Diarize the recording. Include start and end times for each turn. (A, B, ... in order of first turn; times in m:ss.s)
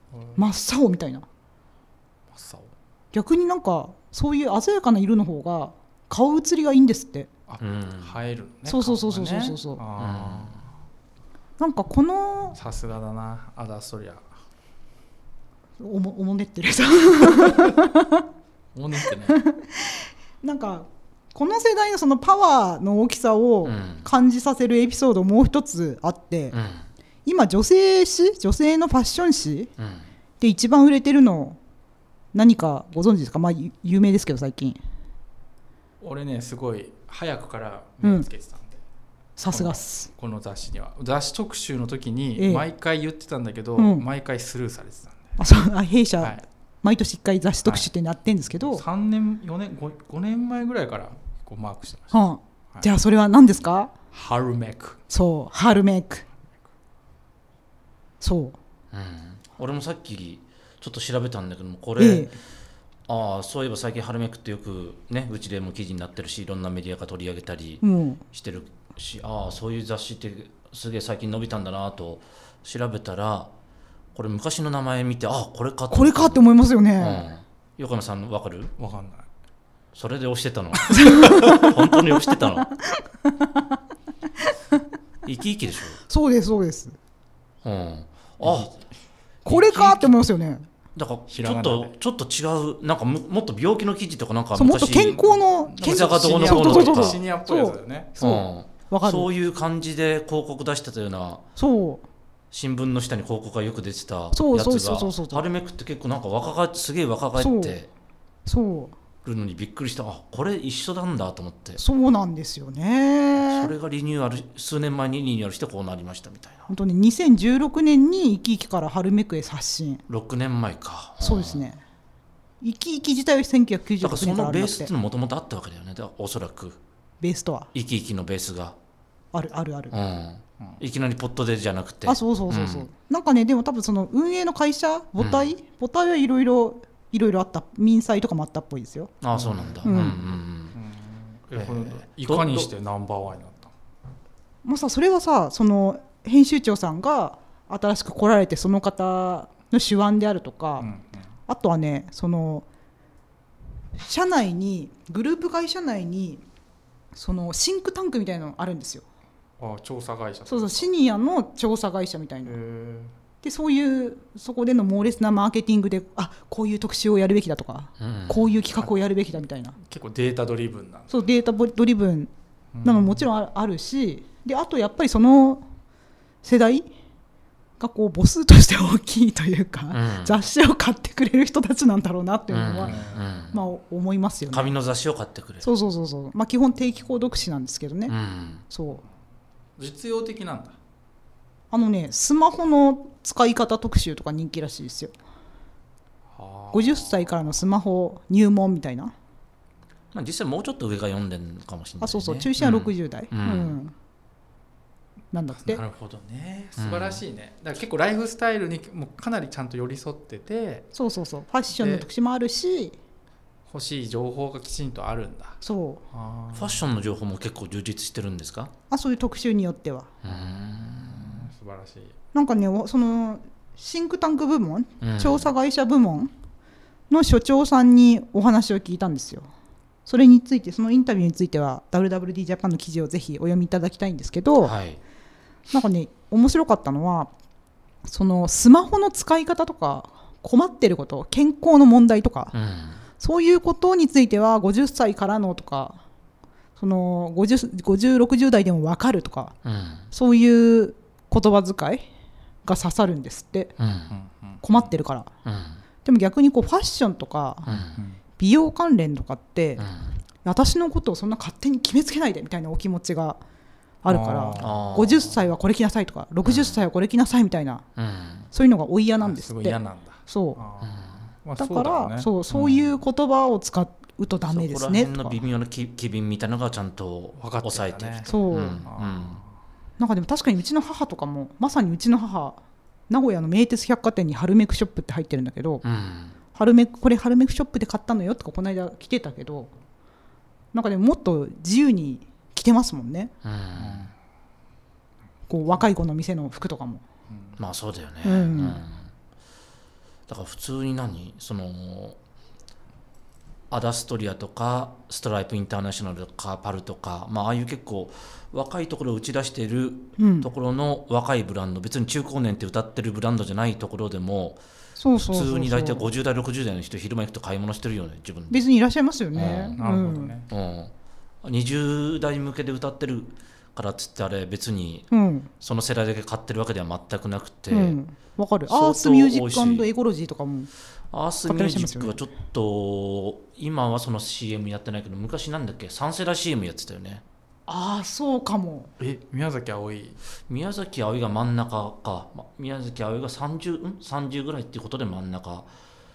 0:00.1-0:00.4 A
0:00.4-0:01.3 B
0:02.3-0:02.7 A
0:03.1-0:07.3 B
0:07.5-0:10.7 A
0:07.6-0:08.2 C
0:08.7-0:09.8 B
0:10.0-0:10.6 C
0:11.6-0:12.6 B
0:12.6-0:14.2 A
0:15.8-0:18.2 B
0:18.7-0:19.4 A
0:19.2-0:26.6 B
0:23.6-0:24.1 C
0:26.5-0:26.8 C
0:27.3-0:29.7 B
0:29.8-0:30.1 C
0:30.4-0:31.6 B
0:32.3-0:34.8 B
0:36.0-0:38.8 A
0:38.0-0:38.3 B
0:39.4-0:40.1 B
0:39.5-0:45.4 A
0:42.4-0:42.7 B
0:43.8-0:44.0 B
0:45.4-0:48.8 B
0:47.6-0:47.9 A
0:48.6-0:52.2 A
0:52.1-0:53.9 B
0:54.1-0:55.0 A
0:55.1-0:56.2 B
0:58.2-0:58.6 B
0:58.9-1:02.3 C
1:02.0-1:02.3 B
1:03.1-1:13.5 C
1:07.8-1:08.2 B
1:14.2-1:16.5 C
1:15.9-1:17.2 B
1:17.0-1:18.7 C
1:18.8-1:19.3 A
1:19.9-1:22.7 C
1:20.9-1:21.4 A
1:20.9-1:23.8 B
1:24.4-1:24.8 B
1:25.2-1:26.0 C
1:26.1-1:27.0 B
1:27.6-1:28.7 C
1:28.4-1:28.8 A
1:29.4-1:30.7 B
1:29.5-1:30.1 C
1:31.0-1:35.3 C
1:31.3-1:31.9 A
1:34.6-1:39.3 B
1:35.1-1:38.2 A
1:35.8-1:37.2 C
1:38.2-1:41.4 C
1:41.6-1:42.0 B
1:42.5-1:47.9 C
1:44.3-1:45.4 B
1:47.4-1:47.8 B
1:48.5-1:49.0 B
1:49.2-1:51.8 C
1:51.8-1:53.7 B
1:53.4-1:56.7 C
1:56.7-2:00.0 B
2:00.1-2:01.6 C
2:01.2-2:01.8 B
2:02.6-2:04.9 B
2:04.0-2:06.8 C
2:07.2-2:07.7 B
2:07.7-2:08.8 C
2:09.3-2:10.0 B
2:09.9-2:12.9 C
2:12.1-2:19.1 B
2:15.2-2:15.5 C
2:19.2-2:20.8 C
2:19.3-2:23.7 A
2:19.8-2:20.2 B
2:21.6-2:22.7 C
2:24.6-2:30.9 B
2:30.8-2:31.3 A
2:31.5-2:32.7 B
2:34.0-2:36.4 B
2:37.2-2:39.0 B
2:39.6-2:40.9 A
2:40.5-2:42.6 B
2:42.4-2:43.1 A
2:43.4-2:49.8 B
2:48.0-2:48.5 C
2:49.8-2:51.3 A
2:51.1-2:52.3 B
2:52.7-2:53.3 A
2:52.8-2:55.6 B
2:56.4-2:56.9 B
2:57.8-3:03.0 B
2:59.9-3:00.4 C
3:02.5-3:03.6 C
3:02.8-3:03.3 A
3:03.5-3:04.7 B
3:04.5-3:05.7 C
3:05.6-3:08.2 B
3:08.1-3:08.6 C
3:08.7-3:09.0 B
3:09.8-3:10.8 A
3:11.7-3:15.1 B
3:16.3-3:17.3 A
3:16.7-3:19.1 B
3:20.1-3:23.8 C
3:22.0-3:23.9 B
3:25.3-3:25.8 B
3:25.5-3:30.9 A
3:26.8-3:27.2 C
3:30.9-3:33.0 B
3:31.7-3:32.1 A
3:33.7-3:35.6 A
3:35.6-3:36.0 B
3:36.1-3:36.8 A
3:36.5-3:38.7 C
3:38.9-3:40.1 B
3:40.2-3:41.5 C
3:40.3-3:42.2 A
3:42.3-3:46.3 B
3:45.0-3:45.5 C
3:47.1-3:49.5 B
3:50.1-3:54.8 B
3:54.6-3:55.0 C
3:55.7-3:57.3 B
3:58.0-4:02.5 B
4:02.5-4:03.0 C
4:03.2-4:06.0 B
4:06.8-4:09.6 B
4:09.6-4:10.1 C
4:10.1-4:12.1 B
4:12.6-4:13.7 B
4:13.8-4:14.1 C
4:14.1-4:14.9 A
4:14.6-4:15.3 B
4:15.4-4:15.8 C
4:16.0-4:17.7 B
4:17.7-4:18.0 C
4:17.9-4:18.2 A
4:18.4-4:19.9 B
4:19.8-4:20.2 C
4:20.4-4:23.4 B
4:24.0-4:27.8 B
4:24.1-4:24.9 A
4:24.6-4:25.4 C
4:26.4-4:26.8 C
4:28.0-4:28.5 C
4:28.5-4:30.6 B
4:29.2-4:32.8 A
4:30.8-4:31.2 C
4:31.6-4:35.4 B
4:34.5-4:39.4 C
4:37.4-4:39.5 A
4:38.3-4:38.8 B
4:40.0-4:45.8 B
4:45.8-4:46.4 C
4:46.5-4:49.7 B
4:50.7-4:53.3 B
4:53.4-4:54.1 C
4:53.8-4:54.1 A
4:55.5-4:57.0 B
4:57.3-4:57.6 A
4:57.6-4:59.1 C
4:58.2-4:58.8 B
5:00.3-5:02.2 C
5:03.7-5:14.6 C
5:10.2-5:10.5 B
5:15.0-5:16.1 B
5:15.2-5:18.6 C
5:18.5-5:20.3 B
5:19.4-5:19.8 C
5:19.8-5:20.5 A
5:20.5-5:28.0 C
5:25.1-5:25.5 B
5:27.7-5:30.7 B
5:28.7-5:29.9 C
5:31.1-5:37.2 C
5:31.5-5:32.2 B
5:37.7-5:38.9 B
5:39.0-5:40.2 A
5:40.5-5:45.7 C